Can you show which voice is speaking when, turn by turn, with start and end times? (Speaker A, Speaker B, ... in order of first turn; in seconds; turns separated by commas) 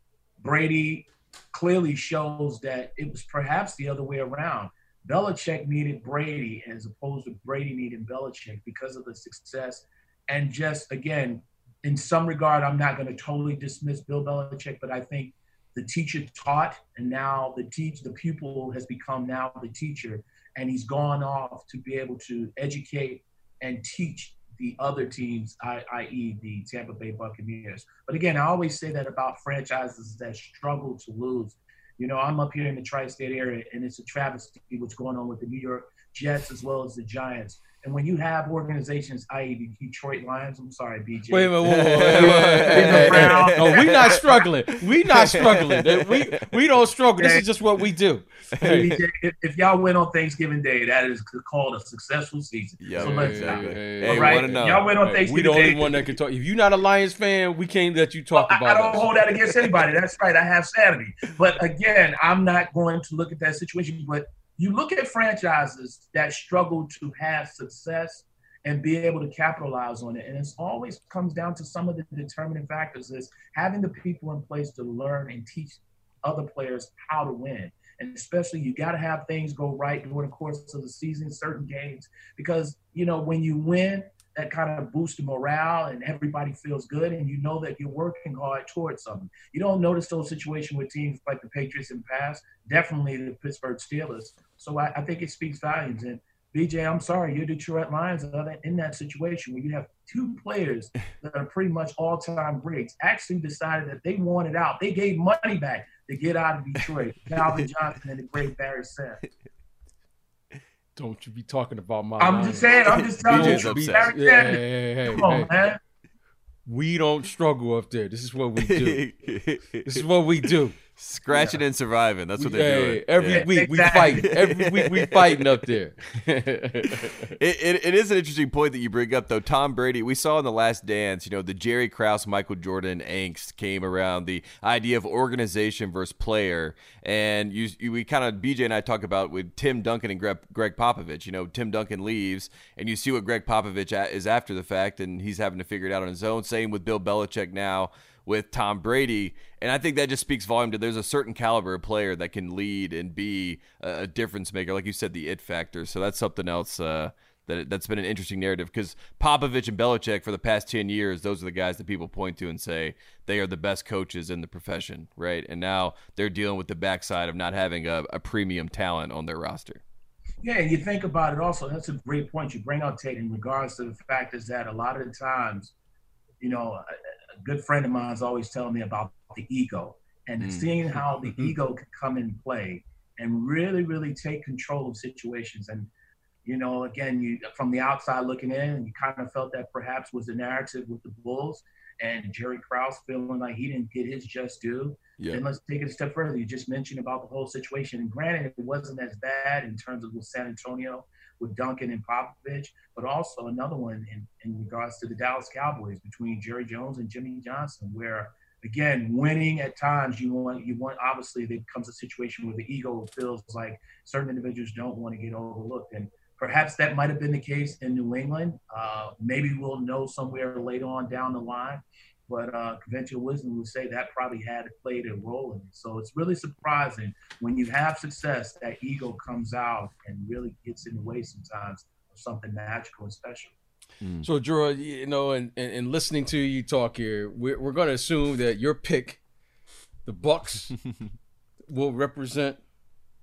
Speaker A: 0.4-44.5, Speaker B: 41.3-49.0, Speaker C: 41.6-46.5, Speaker A: 47.2-47.5, Speaker C: 48.5-48.9, Speaker A: 48.6-56.1, Speaker C: 52.8-54.9, Speaker B: 53.0-59.5, Speaker A: 58.4-109.2, Speaker B: 111.0-115.5, Speaker A: 112.2-115.8, Speaker C: 112.9-114.2, Speaker B: 116.7-119.1, Speaker C: 118.6-125.6, Speaker B: 119.8-120.8, Speaker A: 121.3-121.6, Speaker B: 122.4-127.3, Speaker A: 123.3-124.3, Speaker C: 126.9-169.8, Speaker A: 170.4-175.7, Speaker A: 176.4-185.9, Speaker C: 180.4-180.7, Speaker A: 186.4-233.6, Speaker C: 234.0-234.3, Speaker B: 234.2-239.2, Speaker B: 240.1-240.7, Speaker B: 241.7-242.6